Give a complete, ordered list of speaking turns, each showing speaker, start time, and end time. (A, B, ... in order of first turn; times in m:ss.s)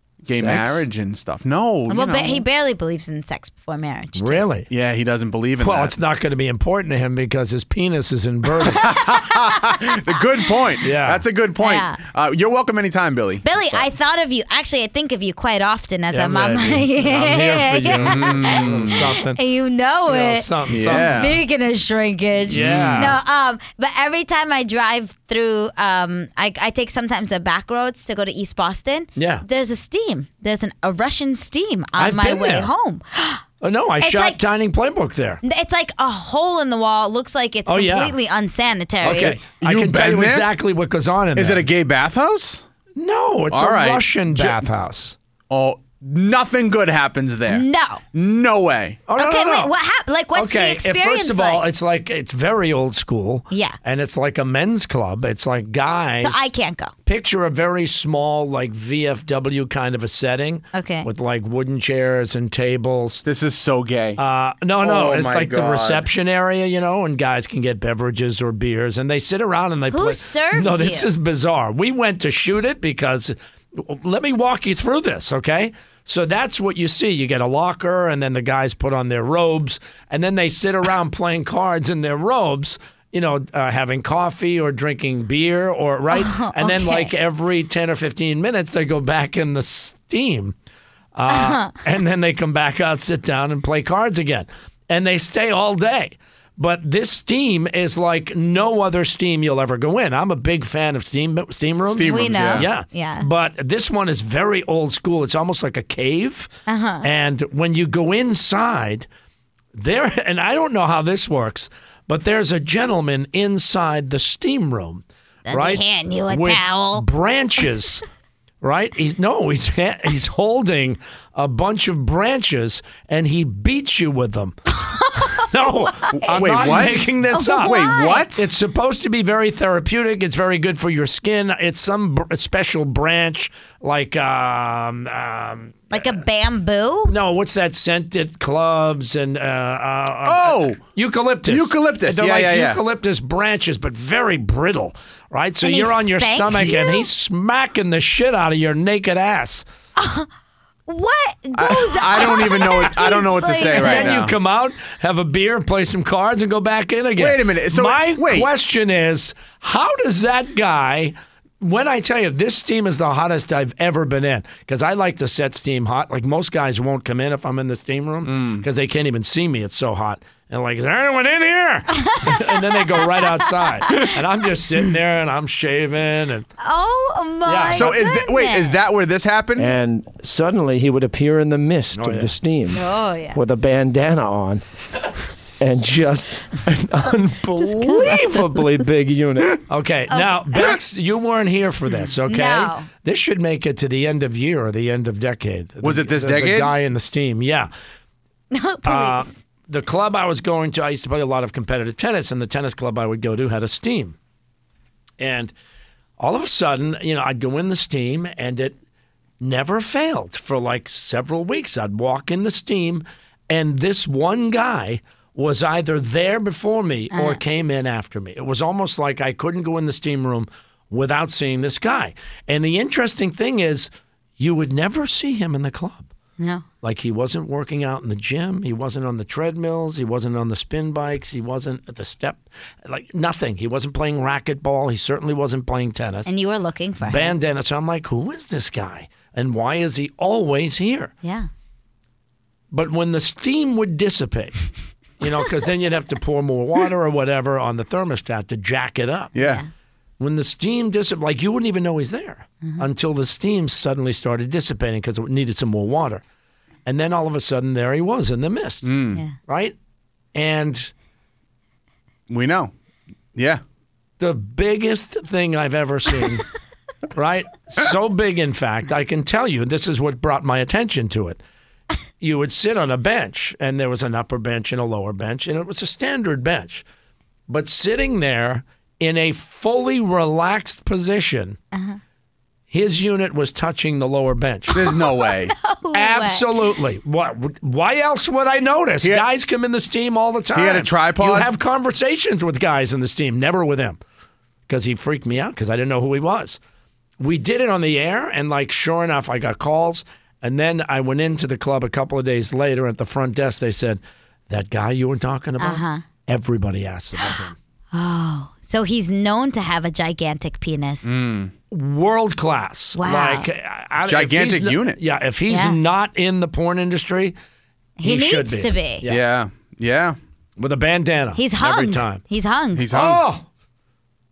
0:00.2-0:02.4 A
0:00.3-0:00.8 B
0:01.9-0:04.5 C
0:04.2-0:04.7 B
0:04.7-0:05.9 A
0:05.6-0:08.9 B
0:08.8-0:13.8 A
0:10.8-0:11.2 B
0:11.6-0:12.0 C
0:13.4-0:33.4 C
0:16.1-0:19.4 B
0:18.0-0:19.1 A
0:20.1-0:21.2 B
0:20.7-0:21.4 A
0:22.5-0:23.2 A
0:22.5-0:23.2 B
0:29.2-0:29.4 B
0:32.0-0:32.7 B
0:33.6-0:35.4 B
0:34.0-0:34.4 C
0:35.4-0:39.4 C
0:37.7-0:38.2 B
0:39.0-0:41.7 B
0:39.3-0:40.5 A
0:41.4-0:42.7 A
0:43.0-0:45.2 B
0:43.5-0:44.6 A
0:45.5-0:49.0 A
0:47.5-0:48.0 C
0:49.1-0:49.7 B
0:49.2-0:51.6 C
0:50.4-0:56.5 B
0:53.5-0:53.8 C
0:56.2-0:56.9 C
0:57.0-1:03.2 B
1:00.7-1:01.1 C
1:03.2-1:04.2 A
1:04.2-1:30.6 B
1:04.8-1:06.1 A
1:09.9-1:11.1 C
1:26.1-1:27.1 C
1:31.2-1:46.5 B
1:31.3-1:31.7 C
1:41.9-1:42.7 A
1:42.0-1:43.3 C
1:46.7-1:47.1 C
1:47.0-1:49.1 B
1:49.8-1:58.0 B
1:55.5-1:57.1 C
1:58.6-2:04.6 B
2:04.8-2:05.4 C
2:05.2-2:07.8 B
2:06.1-2:07.1 A
2:07.3-2:08.3 C
2:07.6-2:08.5 A
2:08.4-2:16.2 B
2:15.9-2:17.1 C
2:17.1-2:29.6 B
2:20.2-2:20.8 A
2:21.5-2:22.8 A
2:25.6-2:27.1 C
2:30.0-2:30.3 C
2:30.9-2:34.2 C
2:31.6-2:34.3 A
2:33.7-2:56.5 B
2:37.2-2:38.5 A
2:48.2-2:48.7 A
2:52.0-2:54.1 C
2:56.6-2:58.8 C
2:57.5-2:58.0 B
2:57.7-2:59.7 A
2:59.6-3:04.6 D
3:01.9-3:02.3 B
3:02.7-3:03.4 C
3:05.6-3:09.6 D
3:07.6-3:08.3 C
3:09.7-3:17.7 B
3:10.1-3:10.8 C
3:12.3-3:12.9 C
3:15.8-3:16.7 A
3:18.5-3:19.4 C
3:18.8-3:24.2 B
3:25.2-3:25.5 B
3:26.2-3:28.8 B
3:29.4-3:46.1 B
3:37.1-3:37.4 C
3:46.4-3:46.6 C
3:46.8-3:56.3 B
3:56.3-3:57.4 C
3:57.0-4:01.1 B
4:01.2-4:01.5 C
4:02.7-4:04.7 B
4:05.2-4:09.3 B
4:09.3-4:09.6 A
4:09.4-4:09.7 C
4:10.2-4:16.2 B
4:16.9-4:18.9 B
4:18.8-4:19.2 A
4:19.5-4:19.8 B
4:20.4-4:20.9 B
4:22.3-4:22.7 A
4:23.4-4:23.6 A
4:24.2-4:26.5 B
4:27.1-4:31.4 B
4:32.2-4:36.8 B
4:37.5-4:41.6 B
4:41.7-4:42.0 C
4:42.7-4:44.8 B
4:44.7-4:46.6 C
4:44.7-4:45.5 A
4:45.9-4:54.0 B
4:50.6-4:51.5 A
4:54.7-4:56.6 B
4:57.2-5:07.6 B
5:05.6-5:06.0 C
5:07.9-5:11.1 C
5:11.0-5:11.5 A
5:11.7-5:17.4 B
5:13.0-5:13.5 C
5:14.0-5:15.0 A
5:15.5-5:15.8 C
5:18.0-5:19.0 C
5:18.0-5:19.2 B
5:19.1-5:20.2 A
5:20.6-5:22.2 B
5:21.4-5:22.9 C
5:22.8-5:23.2 A
5:22.9-5:23.5 B